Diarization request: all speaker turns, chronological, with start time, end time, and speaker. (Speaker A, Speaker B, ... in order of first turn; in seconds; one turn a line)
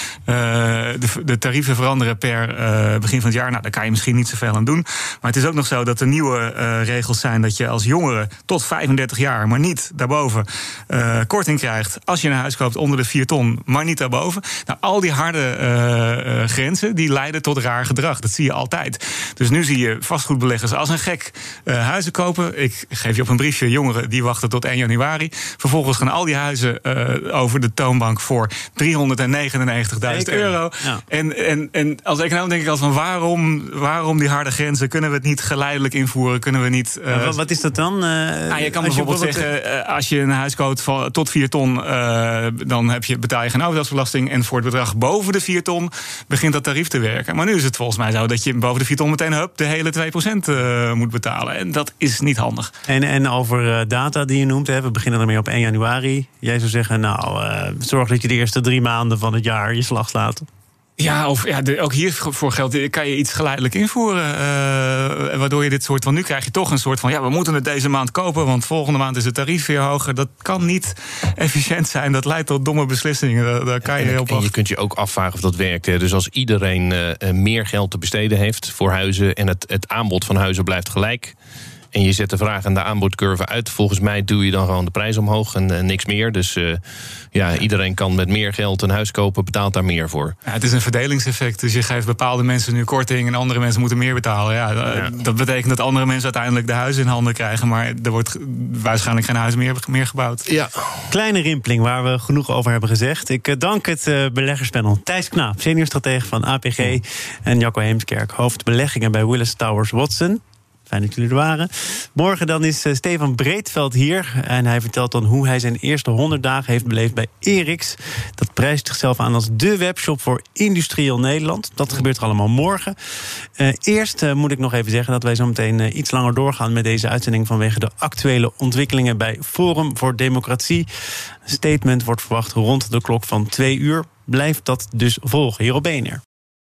Speaker A: 0.2-37.4
Speaker B: 30.0-31.0
Speaker B: 37.1-39.5
Speaker A: 38.5-52.7
Speaker B: 52.9-60.5
Speaker A: 61.0-74.5
Speaker C: 73.8-81.3
Speaker C: 81.9-86.8
Speaker C: 87.3-90.3
Speaker A: 90.5-100.5
Speaker C: 100.5-101.0
Speaker B: 101.1-123.0
Speaker B: 123.6-130.9
Speaker B: 131.4-136.2